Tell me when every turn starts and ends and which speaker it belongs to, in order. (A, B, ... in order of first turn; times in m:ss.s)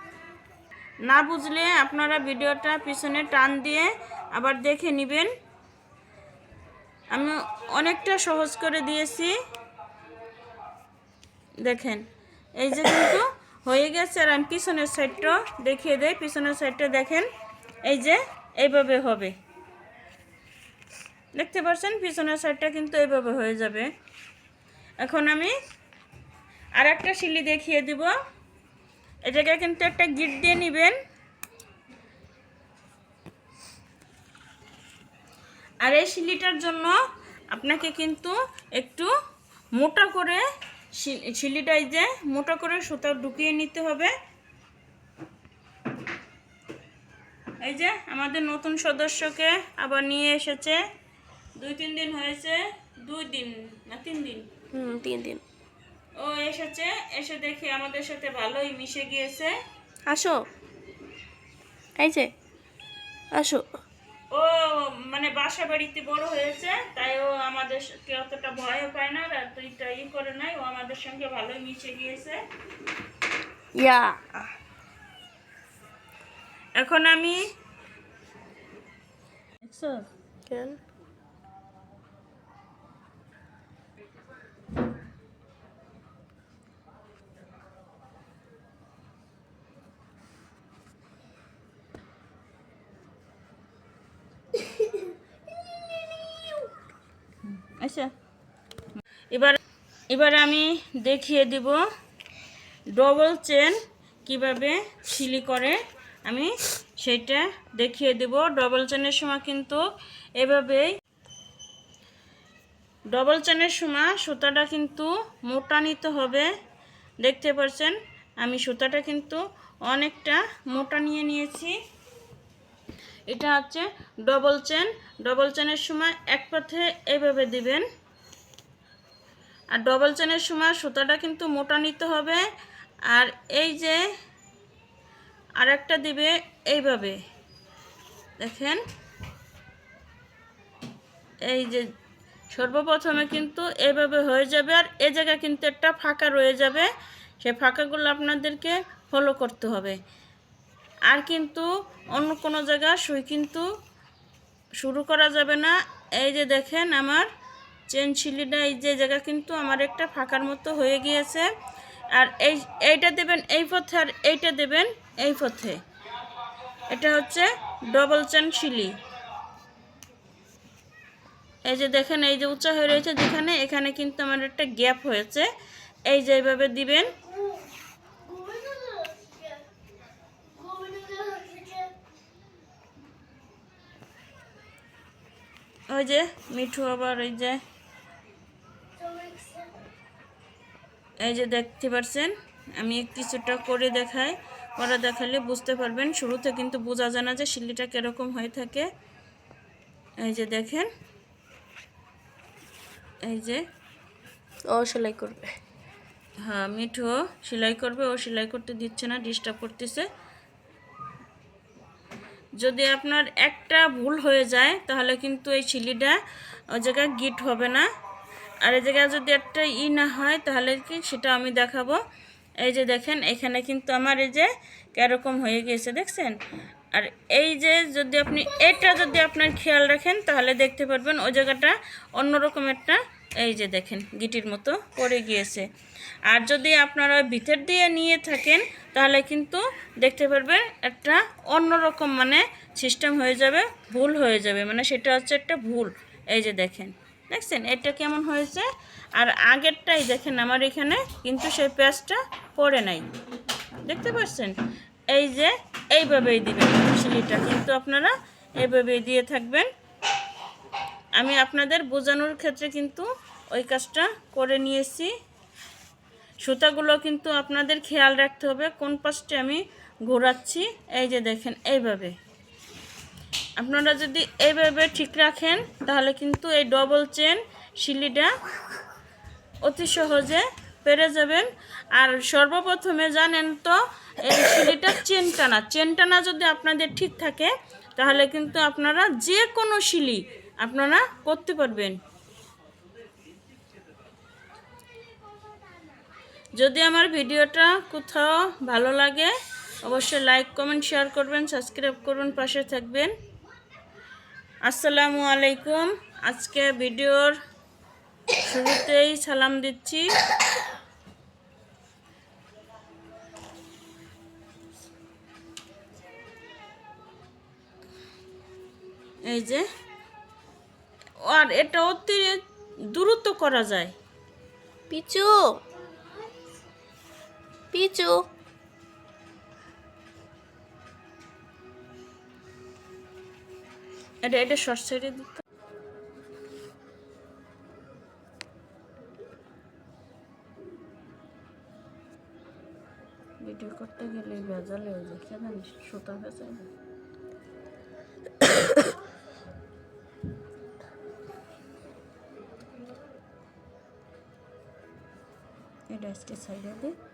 0:01.1-0:05.3 A
0:07.1-0:09.4 A
0:11.6-0:17.3 A
0:17.9-0:19.3 A
0:21.4-0:23.9 A
0:25.0-0:25.6 A
0:26.8-0:28.1 A
0:29.3-0:31.0 A
0:35.8-0:37.0 A
0:37.5-0:39.1 A
0:39.8-0:40.4 A
0:41.0-0:44.1 A
0:47.6-0:50.8 A
0:51.6-0:54.5 A
0:54.7-0:55.4 B
0:56.2-0:59.6 A
1:00.1-1:00.4 B
1:02.0-1:02.3 B
1:03.3-1:03.8 B
1:04.3-1:12.4 A
1:13.8-1:14.5 B
1:16.8-1:17.4 A
1:19.6-1:20.1 A
1:20.5-1:20.8 B
1:37.5-1:38.1 A
1:39.3-1:39.6 A
1:40.1-1:41.8 A
1:43.0-1:49.8 A
1:50.4-1:50.9 A
1:53.1-1:56.5 A
1:57.2-2:01.8 A
2:03.3-2:07.9 A
2:09.7-2:12.4 A
2:13.1-2:14.0 A
2:15.6-2:17.2 A
2:18.4-2:18.8 A
2:21.4-2:21.9 A
2:22.5-2:30.0 A
2:31.1-2:33.7 A
2:34.8-2:37.3 A
2:37.9-2:41.5 A
2:42.1-2:45.8 A
2:46.9-2:49.0 A
2:51.6-2:55.5 A
2:56.1-2:57.2 A
2:58.3-2:59.4 B
3:00.6-3:01.9 B
3:05.9-3:07.6 A
3:09.0-3:09.7 B
3:11.2-3:18.9 A
3:20.2-3:20.9 A
3:23.3-3:23.6 A
3:24.7-3:25.6 B
3:26.4-3:30.1 A
3:32.6-3:36.2 A
3:36.7-3:37.9 A
3:38.6-3:42.0 A
3:42.6-3:46.4 A
3:46.9-3:55.7 A
3:56.3-4:13.1 A
4:13.8-4:14.5 A
4:15.1-4:19.7 A
4:21.2-4:25.1 A
4:26.4-4:32.2 A
4:33.6-4:38.3 A
4:39.6-4:52.0 A
4:56.6-4:59.3 A
4:59.8-5:03.1 A
5:04.7-5:07.4 A
5:08.4-5:10.1 A
5:19.2-5:19.7 A
5:21.3-5:23.9 A
5:24.9-5:25.6 B
5:27.7-5:28.2 B
5:34.2-5:35.3 A
5:43.4-5:46.7 A
5:55.9-5:57.0 A